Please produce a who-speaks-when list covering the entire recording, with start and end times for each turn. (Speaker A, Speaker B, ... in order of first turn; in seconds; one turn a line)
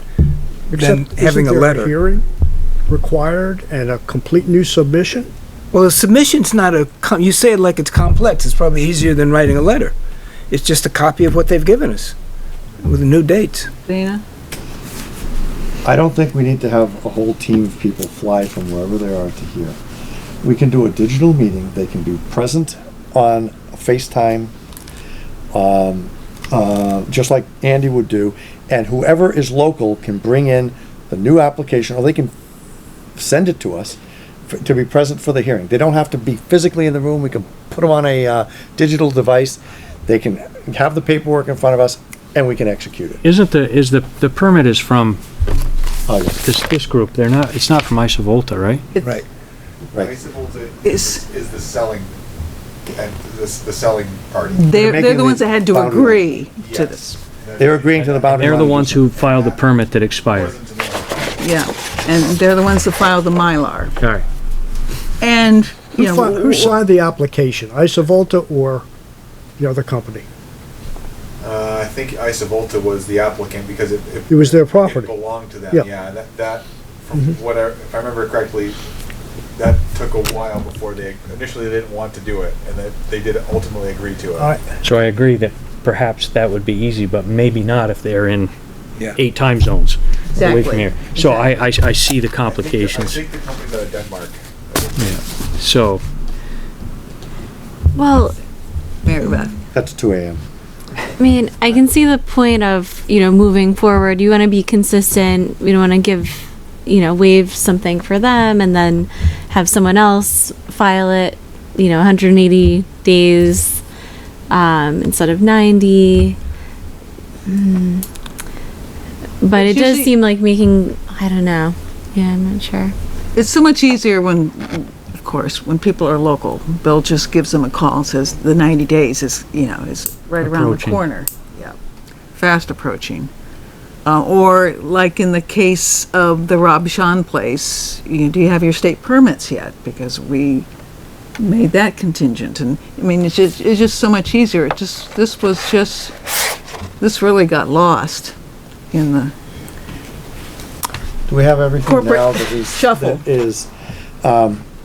Speaker A: 0.7-2.2
Speaker B: 0.7-1.9
Speaker A: 2.9-5.3
Speaker B: 5.7-9.9
Speaker B: 10.5-12.2
Speaker B: 12.8-13.7
Speaker C: 13.9-14.2
Speaker D: 15.8-19.8
Speaker D: 20.4-24.5
Speaker D: 25.5-32.3
Speaker D: 33.2-34.0
Speaker D: 34.5-43.2
Speaker E: 43.2-45.2
Speaker D: 46.1-46.4
Speaker E: 46.4-48.9
Speaker F: 50.0-52.1
Speaker C: 50.8-51.2
Speaker F: 52.9-54.6
Speaker C: 54.5-57.2
Speaker D: 54.7-56.2
Speaker F: 56.6-56.9
Speaker F: 57.4-57.8
Speaker D: 57.6-59.0
Speaker E: 57.9-60.6
Speaker F: 59.2-59.6
Speaker F: 60.4-61.4
Speaker C: 61.4-63.9
Speaker E: 64.0-64.2
Speaker C: 65.2-66.8
Speaker A: 66.0-68.9
Speaker A: 69.6-70.2
Speaker F: 71.4-78.8
Speaker A: 74.3-75.2
Speaker F: 79.6-84.5
Speaker A: 84.4-84.8
Speaker E: 84.8-88.5
Speaker E: 89.2-93.2
Speaker C: 90.3-91.5
Speaker F: 92.5-95.0
Speaker E: 95.0-96.0
Speaker G: 98.0-98.4
Speaker C: 99.0-99.6
Speaker D: 99.7-100.4
Speaker G: 101.2-113.8
Speaker G: 114.5-116.4
Speaker G: 117.5-118.0
Speaker G: 119.4-123.0
Speaker C: 119.5-120.1
Speaker C: 123.3-131.8
Speaker E: 130.4-131.1
Speaker C: 132.3-133.3
Speaker C: 134.1-140.7
Speaker C: 141.4-146.1
Speaker C: 147.0-148.3
Speaker C: 148.9-149.3
Speaker D: 151.3-153.7
Speaker C: 151.8-153.2
Speaker D: 154.2-154.6